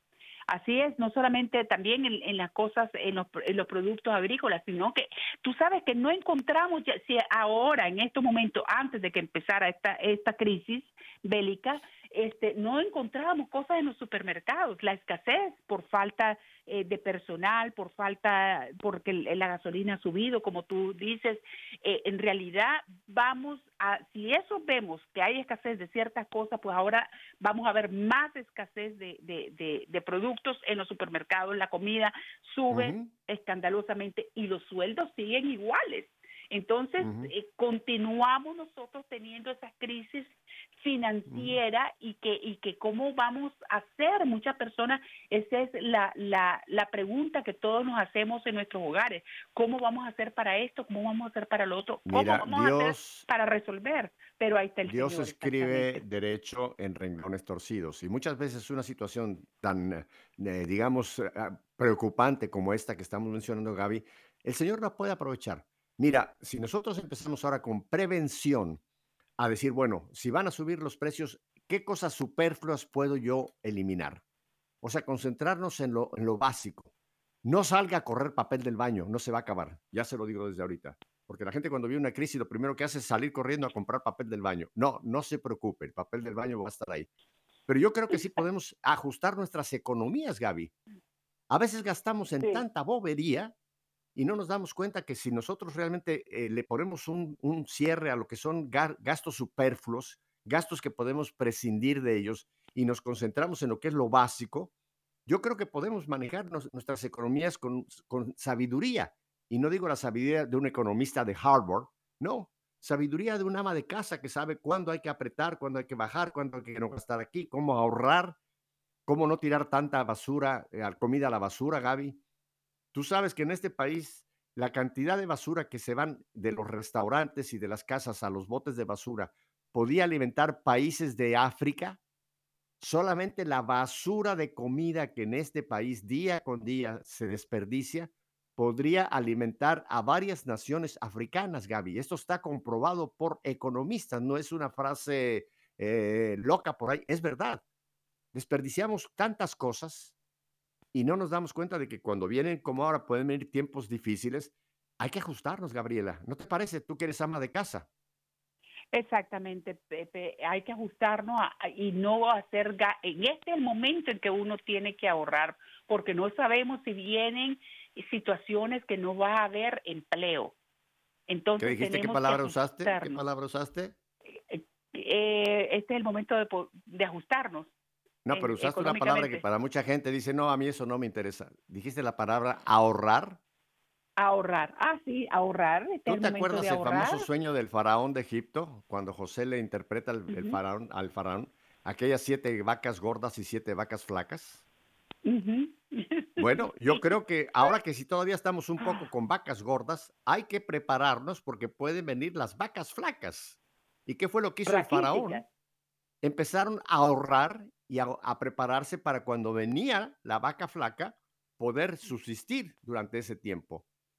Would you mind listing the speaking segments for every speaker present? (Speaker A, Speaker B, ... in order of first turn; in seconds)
Speaker A: 0.5-56.0, 158.9-170.5, 171.3-173.2, 174.5-177.7, 178.3-179.4, 184.2-187.3, 190.3-190.6, 195.2-197.1, 204.7-205.4
Speaker B: 32.7-33.1, 37.0-37.3, 41.3-41.6, 52.0-53.2, 54.9-68.8, 69.4-74.2, 74.8-76.9, 77.4-87.1, 87.7-90.7, 91.5-93.5, 94.1-104.7, 105.2-118.4, 119.1-122.2, 122.9-132.0, 132.8-147.6, 148.3-150.1, 150.9-157.9, 171.6-173.9, 178.2-183.4, 186.1-194.6, 196.4-205.4, 206.2-213.8